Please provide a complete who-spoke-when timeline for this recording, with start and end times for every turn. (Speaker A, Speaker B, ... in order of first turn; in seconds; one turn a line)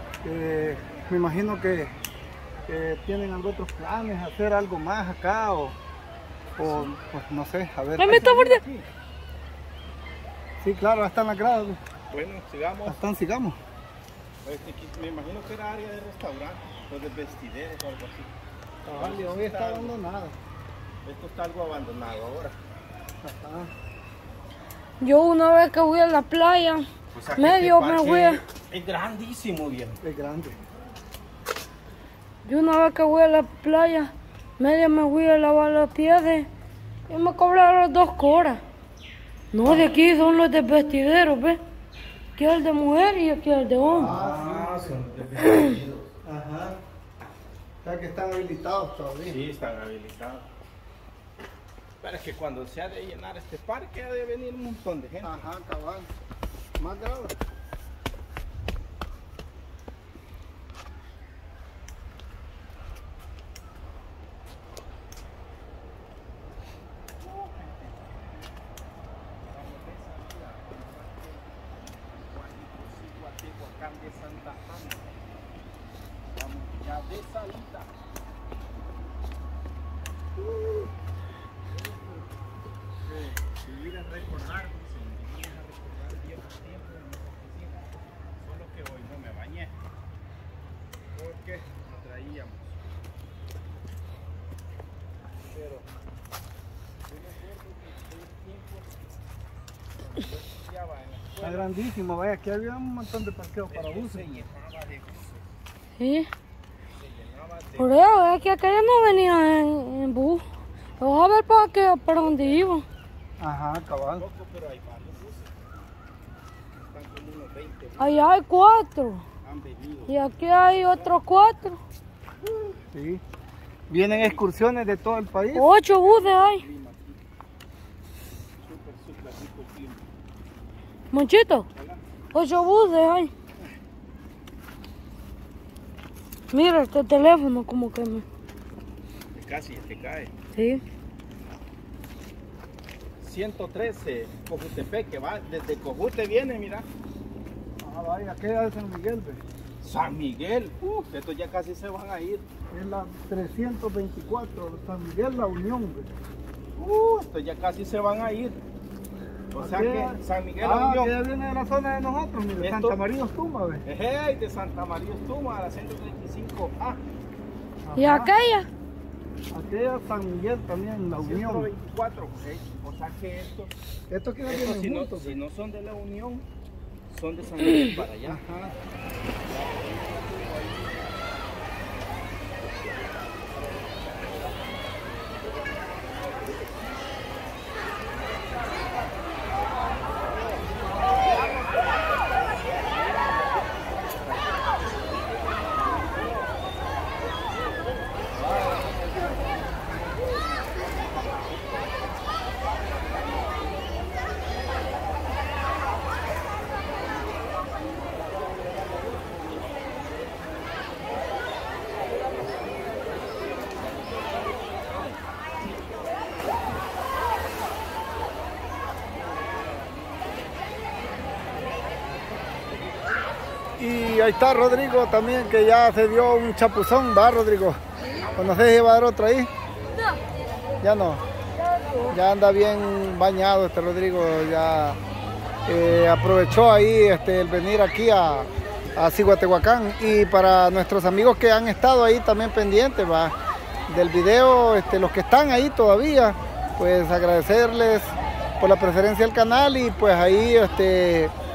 Speaker A: 0.2-1.9
Speaker A: 2.7-5.7
Speaker A: 6.6-8.6
Speaker B: 6.6-6.9
Speaker C: 8.0-8.6
Speaker A: 10.6-11.8
Speaker B: 12.1-13.0
Speaker A: 12.8-13.6
Speaker B: 14.4-18.3
Speaker A: 18.8-20.4
Speaker B: 18.9-20.0
Speaker B: 21.0-22.6
Speaker A: 23.2-23.7
Speaker C: 25.0-26.9
Speaker B: 27.1-30.0
Speaker C: 27.4-28.4
Speaker A: 30.0-30.6
Speaker C: 32.4-36.5
Speaker C: 37.1-38.6
Speaker C: 39.5-41.6
Speaker C: 42.4-44.1
Speaker B: 43.9-46.1
Speaker A: 44.0-45.0
Speaker A: 46.2-46.8
Speaker A: 47.8-49.4
Speaker B: 49.2-50.5
Speaker B: 52.0-55.5
Speaker A: 55.2-56.1
Speaker A: 56.8-57.4
Speaker B: 67.2-68.5
Speaker B: 69.4-75.2
Speaker B: 76.3-77.9
Speaker B: 83.0-89.7
Speaker B: 91.1-92.8
Speaker B: 95.4-95.8
Speaker B: 97.0-99.0
Speaker B: 100.0-101.7
Speaker A: 101.4-104.4
Speaker B: 103.7-105.4
Speaker C: 106.0-106.3
Speaker B: 106.9-108.0
Speaker C: 107.8-110.4
Speaker C: 111.0-112.8
Speaker B: 112.2-112.6
Speaker A: 113.4-114.2
Speaker B: 114.1-115.5
Speaker B: 116.7-118.3
Speaker C: 118.0-119.2
Speaker B: 119.4-120.2
Speaker C: 120.1-121.8
Speaker B: 120.8-121.1
Speaker B: 122.4-122.8
Speaker A: 122.9-123.2
Speaker A: 123.9-125.7
Speaker B: 124.0-124.4
Speaker C: 125.5-126.6
Speaker B: 125.8-127.2
Speaker B: 128.6-130.0
Speaker C: 131.1-131.7
Speaker B: 131.7-132.0
Speaker C: 132.3-133.3
Speaker C: 136.5-138.2
Speaker B: 139.3-140.3
Speaker C: 140.5-140.8
Speaker B: 143.2-146.9
Speaker A: 147.8-149.4
Speaker B: 149.8-152.4
Speaker A: 152.7-156.1
Speaker B: 156.8-158.6
Speaker B: 159.5-161.1
Speaker A: 159.6-163.8
Speaker B: 162.6-163.0
Speaker B: 163.8-167.0
Speaker A: 167.8-168.3
Speaker C: 167.9-168.7
Speaker A: 169.5-171.7
Speaker B: 171.2-173.7
Speaker A: 174.1-175.3
Speaker B: 174.4-176.4
Speaker B: 177.1-178.4
Speaker A: 178.2-178.7
Speaker B: 179.5-181.0
Speaker B: 193.2-194.2
Speaker B: 219.5-220.2
Speaker A: 223.8-227.8
Speaker A: 228.3-229.5
Speaker A: 230.8-231.2
Speaker A: 232.1-235.0
Speaker A: 235.7-243.3
Speaker A: 243.9-251.3